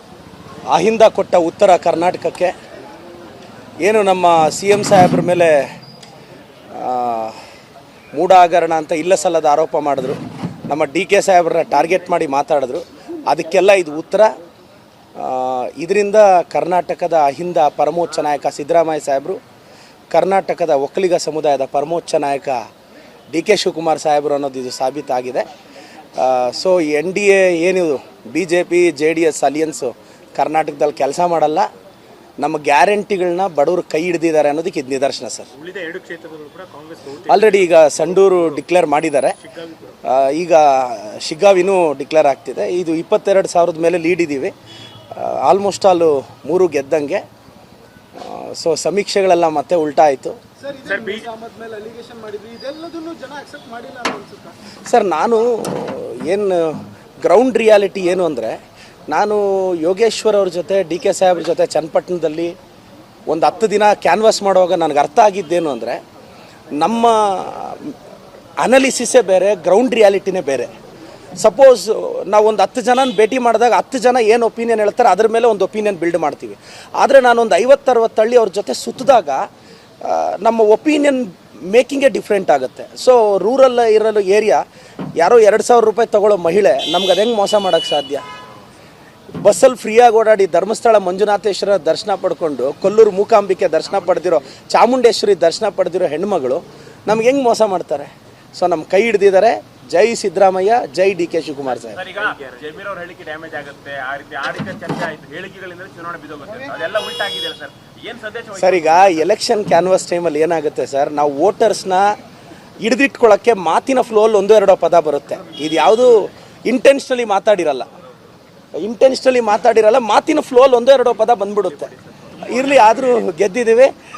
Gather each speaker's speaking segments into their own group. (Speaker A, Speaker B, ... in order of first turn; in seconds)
Speaker A: 0.7-2.5, 3.8-5.7, 6.7-7.4, 8.1-14.3, 15.2-19.4, 20.1-22.7, 23.3-25.5, 26.2-31.7, 32.4-35.5, 37.3-39.4, 40.0-44.5, 45.1-47.2, 48.2-50.4, 54.9-58.6, 59.1-62.5, 63.3-66.0, 66.8-68.0, 68.6-70.7, 71.4-79.5, 80.0-84.6, 85.2-88.2, 89.4-102.0, 108.5-112.1, 112.8-117.9, 118.8-123.9
Speaker B: 35.6-37.8, 39.4-40.0, 50.9-51.3, 101.8-109.3, 121.7-123.2
Speaker C: 50.6-54.5